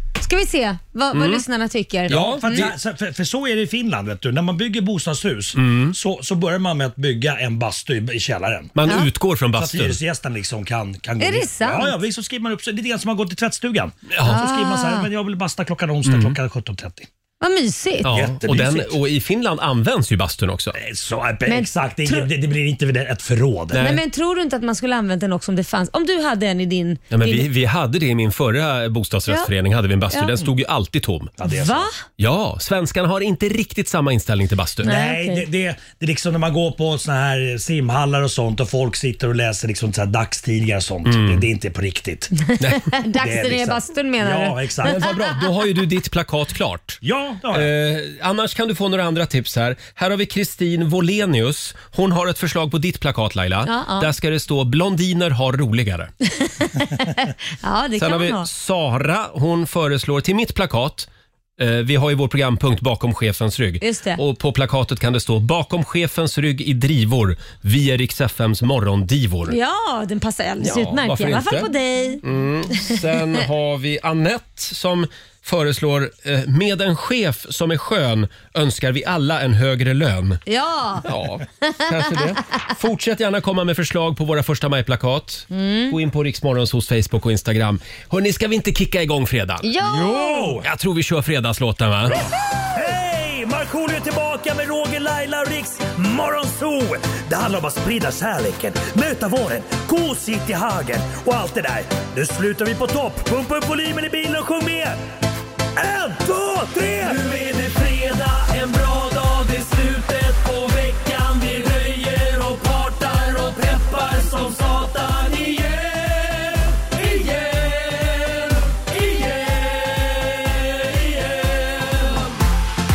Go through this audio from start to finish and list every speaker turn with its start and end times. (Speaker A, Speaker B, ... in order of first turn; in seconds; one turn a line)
Speaker A: 0.2-2.7
Speaker B: 1.1-1.4
Speaker B: 2.1-2.8
Speaker C: 2.1-8.7
Speaker B: 5.5-6.0
Speaker B: 8.8-10.0
Speaker C: 9.6-17.1
Speaker A: 11.2-12.0
Speaker A: 14.2-15.1
Speaker B: 16.1-16.4
Speaker A: 17.4-18.1
Speaker B: 18.1-20.8
Speaker C: 18.1-18.9
Speaker C: 20.7-23.8
Speaker A: 21.5-22.3
Speaker B: 23.7-24.0
Speaker A: 23.8-27.5
Speaker B: 27.1-31.3
Speaker C: 31.4-31.9
Speaker A: 31.4-32.0
Speaker B: 32.2-34.9
Speaker C: 34.8-42.5
Speaker A: 34.8-35.5
Speaker B: 41.0-41.5
Speaker A: 42.4-45.1
Speaker B: 42.6-42.9
Speaker C: 43.2-45.0
Speaker B: 44.8-47.0
Speaker C: 47.0-47.7
Speaker B: 47.5-56.1
Speaker A: 53.6-54.1
Speaker A: 56.3-58.5
Speaker B: 58.0-69.6
Speaker A: 63.8-64.2
Speaker A: 69.5-72.2
Speaker B: 70.6-71.7
Speaker B: 72.2-80.4
Speaker A: 80.5-81.1
Speaker B: 81.0-89.7
Speaker A: 81.7-82.2
Speaker A: 85.5-86.0
Speaker A: 89.6-90.6
Speaker C: 89.8-90.7
Speaker B: 90.6-92.2
Speaker C: 92.1-105.0
Speaker C: 105.8-122.0